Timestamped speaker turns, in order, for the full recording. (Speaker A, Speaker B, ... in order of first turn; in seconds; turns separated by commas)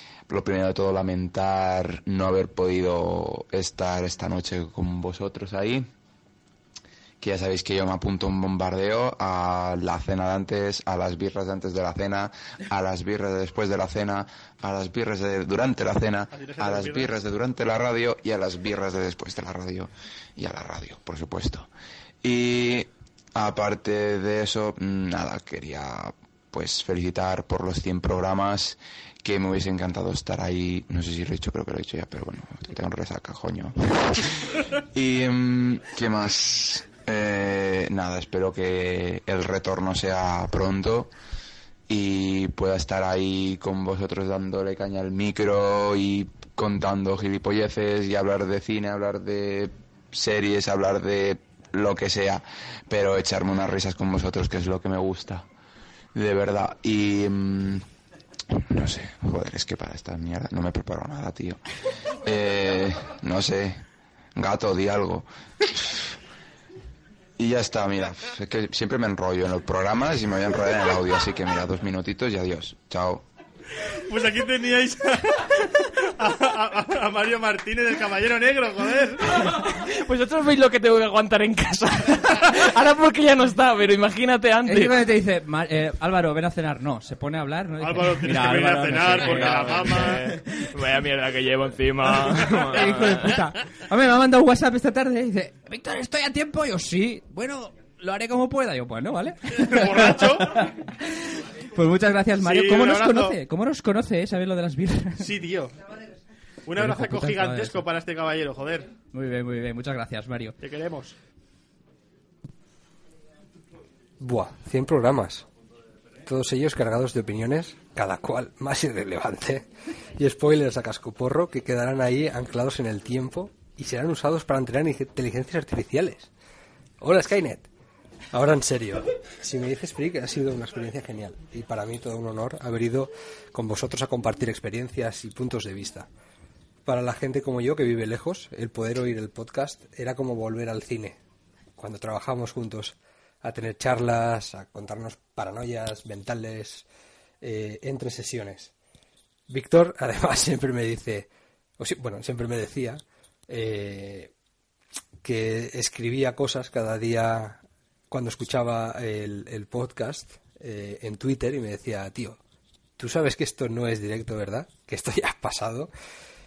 Speaker A: 0.3-5.9, Speaker A: 7.2-21.7, Speaker B: 16.3-17.1, Speaker A: 22.2-41.1, Speaker A: 41.9-55.4, Speaker A: 56.1-57.8, Speaker A: 58.6-61.6, Speaker A: 62.2-63.8, Speaker A: 64.3-66.1, Speaker A: 67.4-73.2, Speaker B: 74.0-79.3, Speaker C: 79.3-85.0, Speaker D: 84.6-90.7, Speaker B: 87.8-90.3, Speaker C: 89.1-93.4, Speaker D: 92.6-105.3, Speaker B: 99.5-100.6, Speaker B: 102.4-103.4, Speaker B: 105.2-105.8, Speaker B: 106.7-108.9, Speaker D: 106.8-107.8, Speaker D: 109.1-110.5, Speaker B: 110.6-111.1, Speaker E: 114.2-115.4, Speaker E: 116.2-126.3, Speaker E: 127.0-127.7, Speaker E: 128.3-136.1, Speaker E: 136.8-141.2, Speaker E: 141.8-146.8, Speaker E: 147.4-148.7, Speaker E: 149.5-154.3, Speaker E: 155.2-162.4, Speaker E: 163.0-165.9